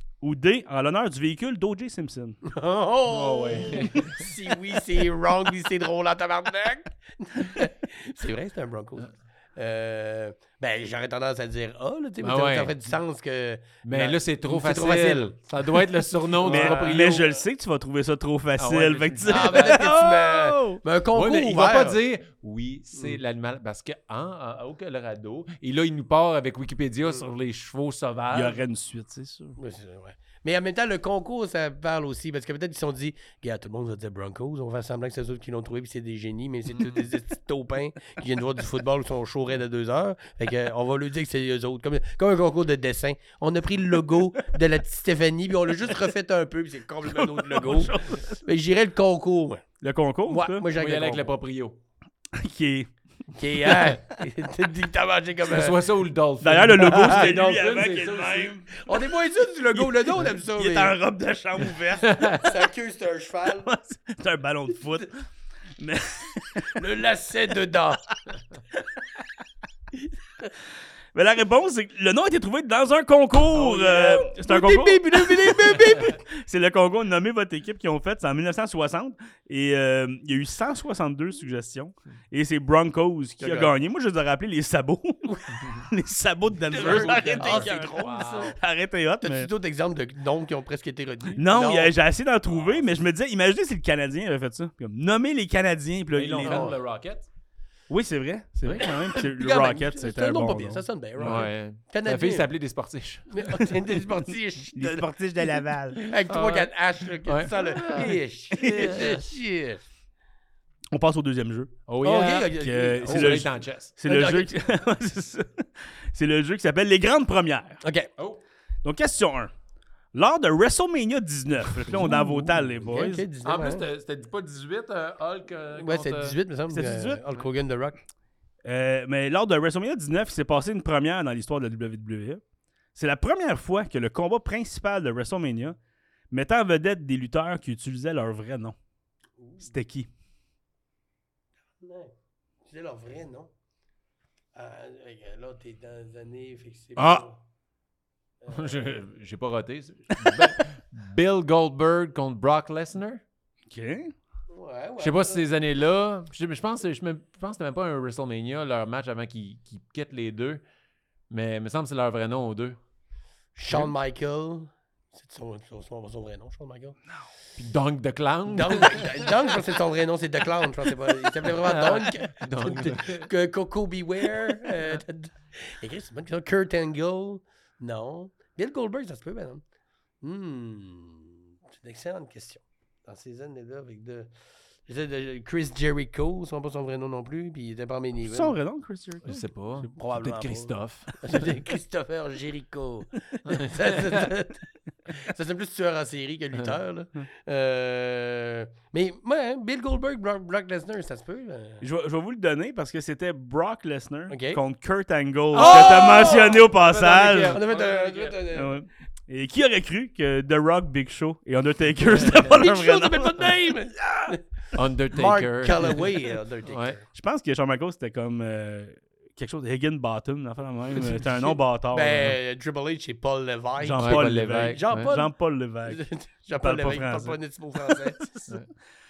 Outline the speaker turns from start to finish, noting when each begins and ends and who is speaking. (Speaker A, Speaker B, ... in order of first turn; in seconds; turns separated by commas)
Speaker A: 0.2-2.4, Speaker B: 2.4-15.4, Speaker C: 3.1-4.3, Speaker C: 12.2-12.7, Speaker C: 13.8-17.3, Speaker B: 16.4-17.0, Speaker A: 16.4-20.8, Speaker C: 18.6-19.8, Speaker B: 19.3-22.0, Speaker C: 21.1-28.6, Speaker A: 28.3-29.6, Speaker B: 29.6-49.6, Speaker A: 47.1-48.3, Speaker A: 49.8-50.7, Speaker B: 50.3-51.3, Speaker C: 50.7-51.8, Speaker A: 52.3-52.9, Speaker B: 53.4-55.8, Speaker A: 53.6-54.0, Speaker C: 55.5-58.5, Speaker A: 56.4-58.7, Speaker B: 56.8-57.4, Speaker B: 58.7-61.0, Speaker A: 59.8-62.3, Speaker C: 62.0-62.5, Speaker B: 62.3-63.7, Speaker A: 63.6-65.2, Speaker A: 65.8-66.9, Speaker B: 66.8-68.0, Speaker A: 71.1-89.5, Speaker B: 73.5-76.2, Speaker B: 83.4-83.7, Speaker B: 85.3-85.6, Speaker B: 86.7-88.6, Speaker C: 86.7-88.5, Speaker B: 89.2-91.9, Speaker A: 91.4-96.7, Speaker C: 92.5-92.8, Speaker C: 96.2-97.3, Speaker B: 96.4-96.8, Speaker A: 97.9-101.4, Speaker B: 99.1-102.5, Speaker C: 101.2-103.7, Speaker B: 103.3-105.1, Speaker A: 104.8-106.0, Speaker B: 106.1-109.8, Speaker C: 106.3-106.7, Speaker C: 107.2-109.2, Speaker A: 108.5-109.1, Speaker A: 110.9-111.7, Speaker C: 111.9-113.9, Speaker B: 112.0-113.5, Speaker A: 112.5-117.8, Speaker B: 114.1-114.5, Speaker B: 117.8-118.1, Speaker C: 118.2-118.4, Speaker A: 118.8-119.5, Speaker A: 120.1-123.3, Speaker C: 121.9-122.3, Speaker B: 122.8-123.9, Speaker C: 123.4-126.4, Speaker B: 125.8-128.0, Speaker A: 126.7-127.2, Speaker A: 128.7-132.4, Speaker A: 132.9-135.8, Speaker A: 136.3-138.8, Speaker B: 139.4-139.7, Speaker A: 139.6-140.1, Speaker B: 141.8-142.1, Speaker B: 142.7-143.5, Speaker B: 144.6-147.3, Speaker C: 147.0-147.2, Speaker B: 148.4-148.9, Speaker C: 148.5-153.2, Speaker A: 153.7-154.1, Speaker B: 154.5-155.4, Speaker C: 155.0-160.6, Speaker C: 161.3-162.8, Speaker B: 163.6-167.0, Speaker C: 167.6-169.4, Speaker B: 168.5-179.6, Speaker C: 171.4-173.3, Speaker C: 174.7-175.0, Speaker B: 180.2-184.3, Speaker B: 184.9-188.6, Speaker A: 188.2-189.9, Speaker C: 189.2-191.2, Speaker B: 190.0-201.8, Speaker C: 193.5-194.2, Speaker A: 201.8-207.6, Speaker B: 204.3-204.6, Speaker C: 205.5-208.4, Speaker B: 205.6-206.6, Speaker B: 207.5-208.8, Speaker A: 208.5-213.6, Speaker B: 212.3-214.4, Speaker C: 214.7-217.0, Speaker B: 215.1-217.0, Speaker A: 217.1-222.4, Speaker B: 221.0-225.3, Speaker A: 223.8-226.0, Speaker C: 224.0-225.1, Speaker B: 225.9-228.4, Speaker A: 226.6-227.4, Speaker A: 227.9-228.6